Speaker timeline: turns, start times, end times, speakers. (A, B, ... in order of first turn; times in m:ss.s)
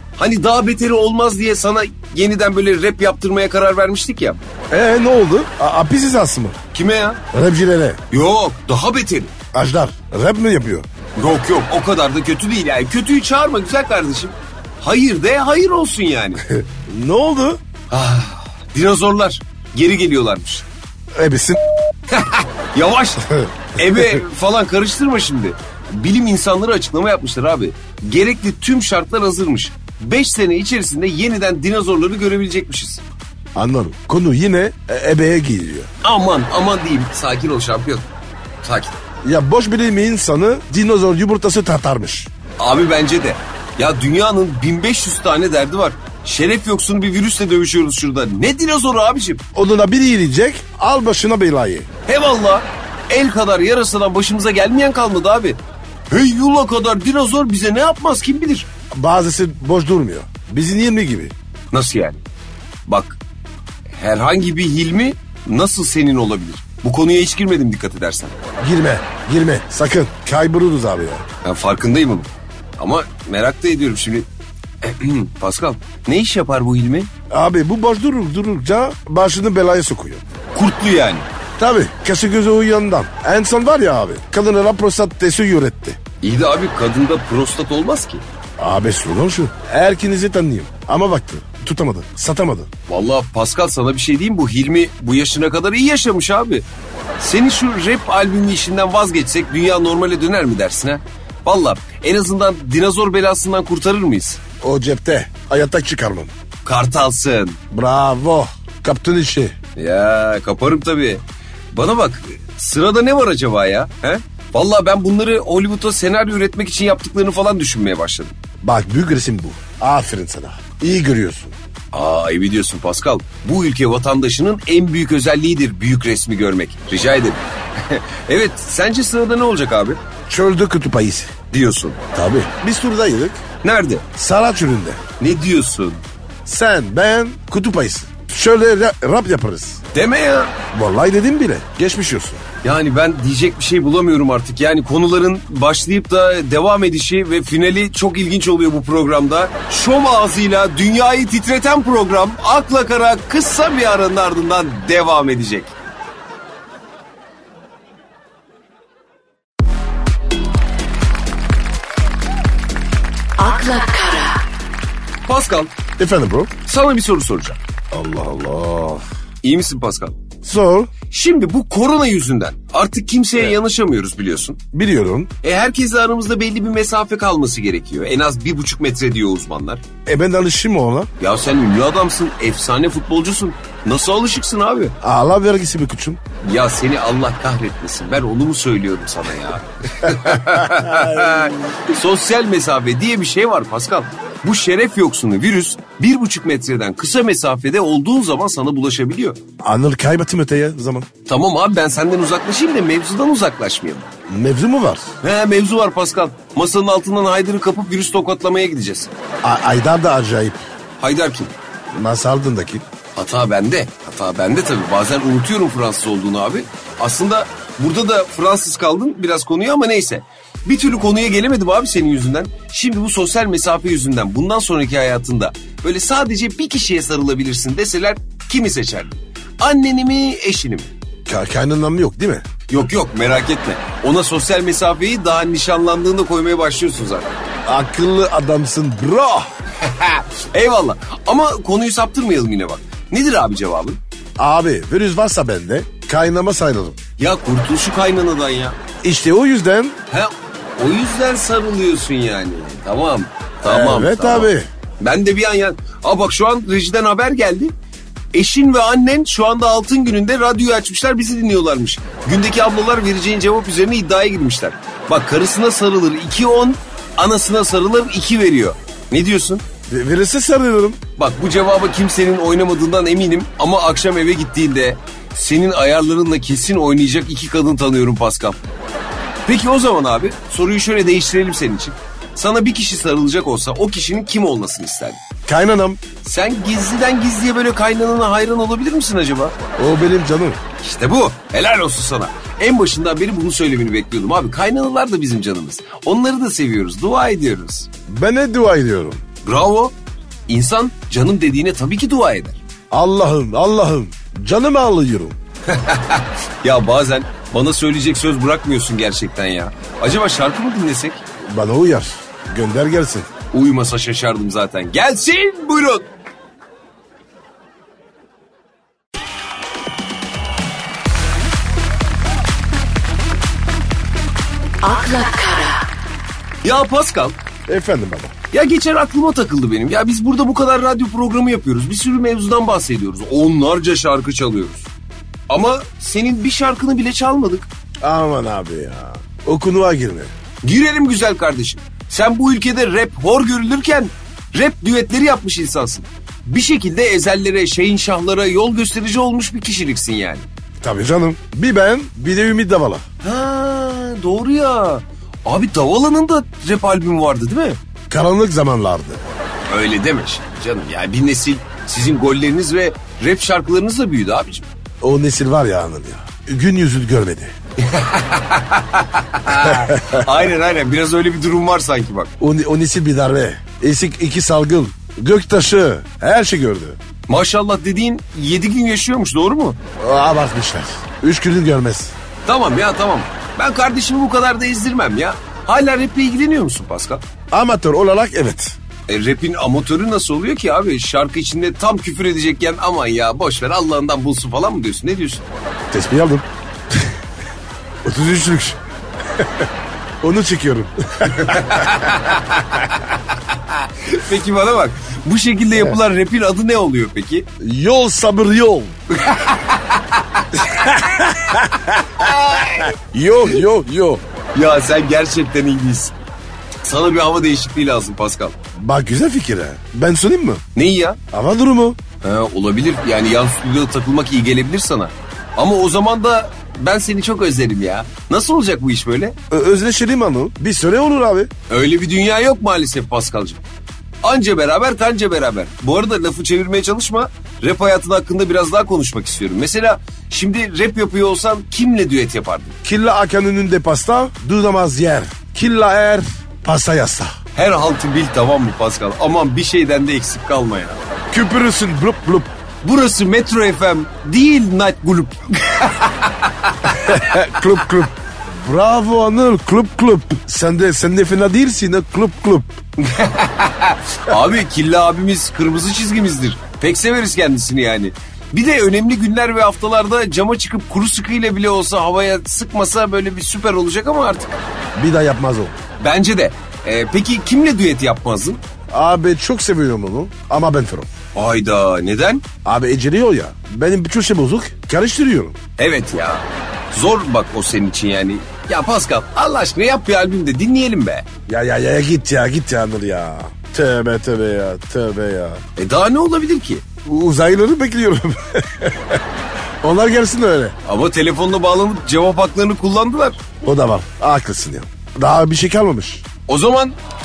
0:00.2-0:04.4 A
0:04.7-0:06.6 B
0:06.7-0:07.2 A
0:07.3-0:08.0 B
0:08.1-0:09.3 A
0:09.5-0:10.9 B
0:11.2-0:16.4 A
0:16.4-0:17.6 B
0:17.9-0:20.6 A
0:21.1-0:21.6 B
0:22.1-0:33.0 A
0:23.3-0:24.2 B
0:33.5-0:35.9 B
0:36.0-0:38.1 A
0:38.6-0:39.0 A
0:39.2-0:42.3 B
0:42.6-0:49.4 A
0:49.5-0:51.9 B
0:52.1-0:55.6 A
0:56.1-0:58.7 A
0:58.9-1:01.3 B
1:01.7-1:02.2 A
1:02.9-1:03.2 A
1:03.9-1:08.4 A
1:08.6-1:11.2 B
1:11.4-1:14.3 A
1:14.8-1:17.1 A
1:17.3-1:20.2 B
1:20.5-1:21.3 A
1:21.6-1:26.0 B
1:26.2-1:28.2 A
1:28.6-1:32.7 B
1:32.9-1:36.6 A
1:37.2-1:44.4 A
1:44.6-1:46.3 B
1:46.6-1:47.6 A
1:47.7-1:49.6 B
1:49.8-1:58.4 A
1:58.6-2:01.6 B
2:01.9-2:10.0 A
2:10.3-2:11.3 B
2:11.5-2:12.0 A
2:12.1-2:13.4 B
2:13.6-2:14.0 A
2:14.1-2:15.0 B
2:15.2-2:16.0 A
2:16.4-2:19.8 B
2:19.9-2:20.5 A
2:20.7-2:22.4 B
2:22.6-2:35.7 A
2:43.4-2:44.4 C
2:45.2-2:45.7 A
2:46.0-2:46.5 B
2:46.6-2:47.6 A
2:47.9-2:49.0 B
2:49.4-2:50.1 A
2:50.4-2:50.9 B
2:51.1-2:54.6 A
2:54.7-2:55.3 B
2:55.4-2:59.8 A
3:00.0-3:01.1 B
3:01.2-3:05.0 A
3:05.0-3:06.2 B
3:06.4-3:19.4 A
3:10.1-3:11.5 B
3:19.6-3:21.1 B
3:21.2-3:24.1 A
3:24.3-3:25.1 B
3:25.2-3:29.1 A
3:29.4-3:30.6 B
3:31.0-3:31.5 A
3:31.9-3:32.8 B
3:33.1-3:50.9 A
3:51.3-3:52.4 B
3:52.7-3:57.4 A
3:57.6-3:59.5 B
3:59.8-4:04.0 A
4:04.4-4:07.0 B
4:07.2-4:08.8 A
4:09.0-4:10.0 B
4:10.1-4:17.7 A
4:13.6-4:14.7 B
4:18.3-4:29.6 A
4:29.9-4:31.0 B
4:31.2-4:38.6 A
4:39.4-4:45.2 A
4:45.5-4:46.0 B
4:46.2-4:49.6 A
4:49.8-4:50.6 B
4:50.8-4:57.9 A
4:58.1-4:59.2 B
4:59.4-4:59.9 A
5:00.5-5:02.6 A
5:02.9-5:05.4 B
5:05.7-5:11.2 A
5:11.4-5:13.3 B
5:13.5-5:16.1 A
5:24.8-5:25.9 C
5:26.6-5:27.4 A
5:27.7-5:28.3 B
5:28.5-5:34.9 A
5:35.5-5:37.7 A
5:38.0-5:40.3 B
5:40.6-5:50.5 A
5:50.8-5:53.0 B
5:53.2-5:57.8 A
5:58.1-5:59.2 B
5:59.7-6:04.7 A
6:05.0-6:07.5 B
6:07.8-6:12.3 A
6:09.6-6:10.3 B
6:12.4-6:17.0 B
6:17.3-6:19.8 A
6:20.0-6:22.1 B
6:22.4-6:27.2 A
6:27.5-6:28.8 B
6:29.1-6:35.4 A
6:35.9-6:37.2 B
6:38.0-6:39.7 B
6:40.2-6:42.2 B
6:41.3-6:47.5 A
6:47.6-6:49.0 B
6:49.1-6:51.3 A
6:50.7-6:52.0 B
6:51.9-6:52.9 A
6:52.8-6:54.2 B
6:54.5-6:56.1 A
6:56.8-6:58.6 A
6:58.8-7:00.6 B
7:00.7-7:01.2 A
7:01.3-7:02.0 B
7:02.2-7:09.4 A
7:09.5-7:11.5 B
7:11.7-7:13.6 A
7:14.2-7:22.8 A
7:22.8-7:27.3 B
7:27.5-7:31.0 A
7:31.3-7:32.5 B
7:32.8-7:37.6 A
7:37.0-7:42.8 B
7:43.0-7:54.6 A
7:54.9-7:55.8 B
7:56.0-7:58.6 A
7:58.9-8:01.1 B
8:01.3-8:02.4 A
8:02.6-8:05.6 B
8:05.8-8:11.2 A
8:11.5-8:15.6 B
8:15.8-8:16.8 A
8:17.0-8:19.2 B
8:19.8-8:20.7 B
8:20.8-8:23.4 A
8:23.6-8:26.2 B
8:26.5-8:26.9 A